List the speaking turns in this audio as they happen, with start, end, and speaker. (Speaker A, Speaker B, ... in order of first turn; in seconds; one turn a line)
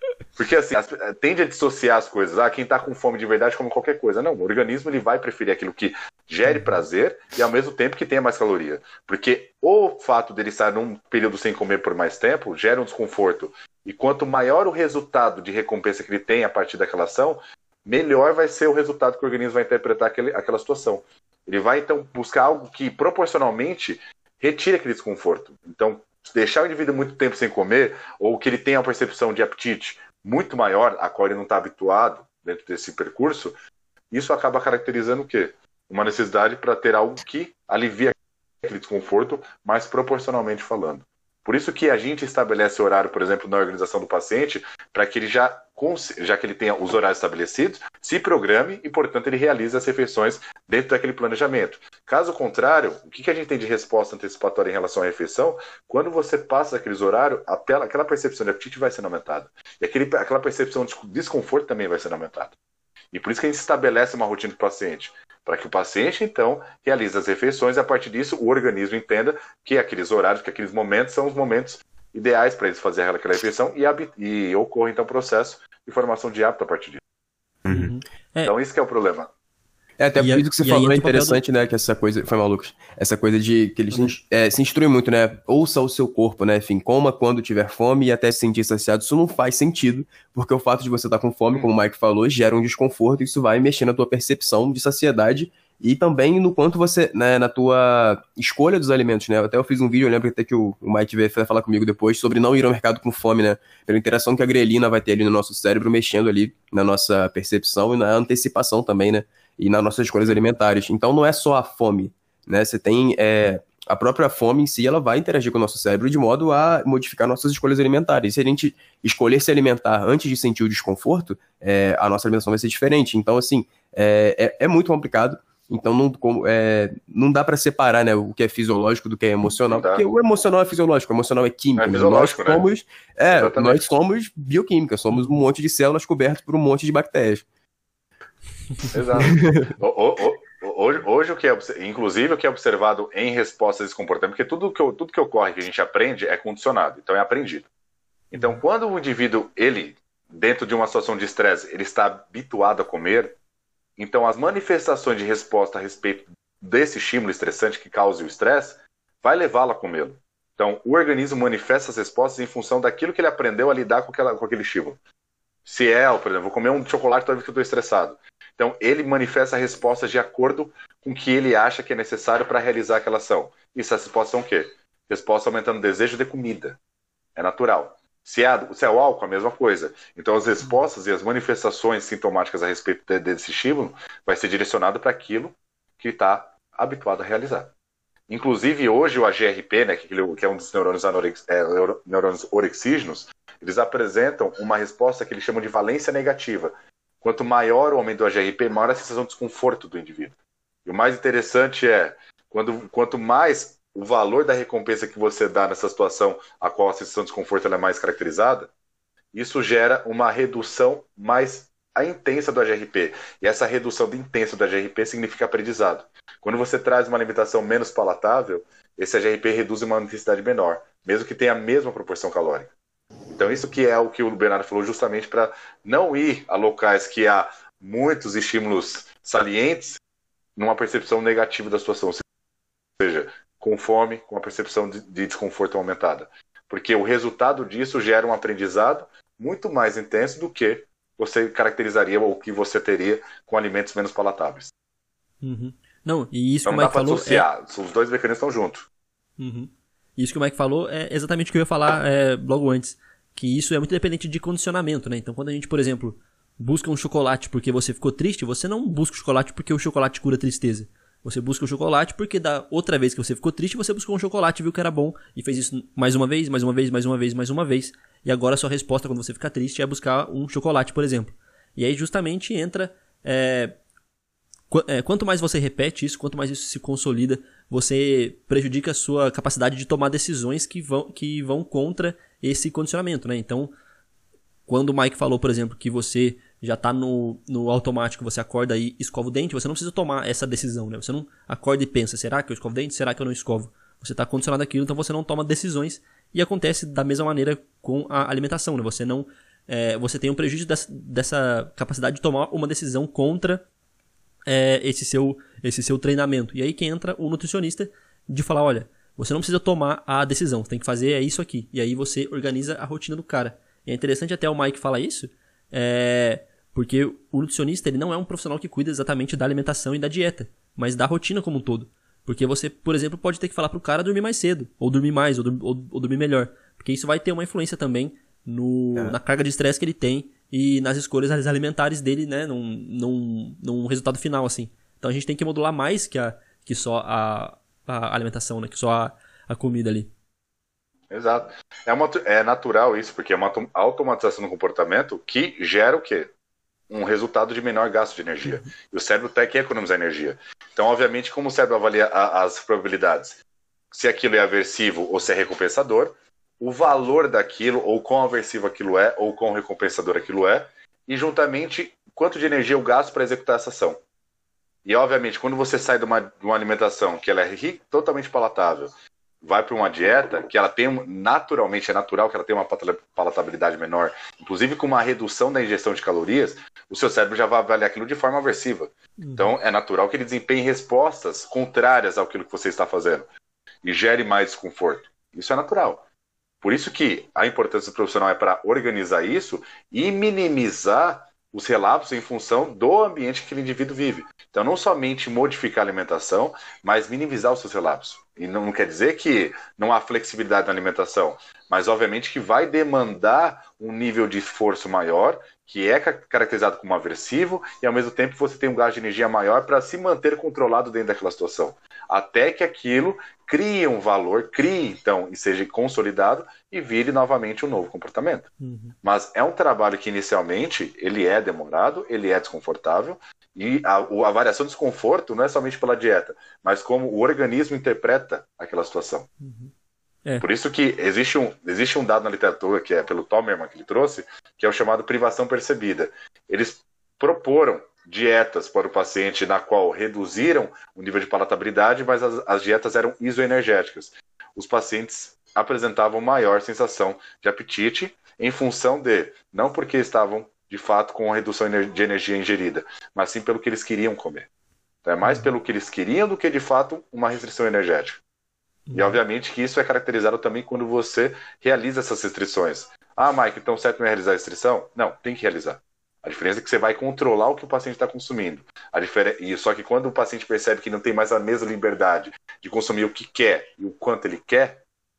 Speaker A: 0.4-33.6
Speaker A: 34.1-62.6
Speaker A: 63.1-77.0
Speaker B: 77.7-77.9
Speaker C: 77.7-78.5
Speaker A: 78.5-79.3
Speaker B: 80.0-137.4
Speaker C: 80.2-81.4
Speaker C: 83.9-84.2
Speaker A: 129.6-130.1
Speaker A: 131.8-132.7
Speaker A: 133.3-133.9
Speaker A: 138.9-147.7
Speaker B: 139.3-139.7
Speaker C: 148.3-148.6
Speaker A: 148.3-153.4
Speaker A: 154.0-165.0
Speaker A: 165.7-176.8
Speaker A: 177.4-187.7
Speaker A: 188.3-208.7
Speaker A: 209.3-222.7
Speaker A: 223.3-230.0
Speaker A: 230.6-232.2
Speaker A: 233.0-244.7
Speaker C: 245.4-247.5
Speaker A: 246.7-248.9
Speaker C: 249.4-273.8
Speaker C: 274.7-283.7
Speaker C: 284.7-303.6
Speaker C: 304.5-340.1
Speaker A: 341.1-346.3
Speaker A: 346.9-353.4
Speaker A: 353.9-364.0
Speaker A: 364.9-368.9
Speaker A: 369.4-383.3
Speaker C: 379.2-379.6
Speaker A: 383.8-386.0
Speaker A: 386.6-418.5
Speaker C: 418.6-418.9
Speaker A: 419.0-429.3
Speaker C: 429.4-429.7
Speaker A: 430.4-454.5
Speaker A: 455.1-458.2
Speaker C: 455.2-455.5
Speaker C: 458.9-459.2
Speaker A: 458.9-474.8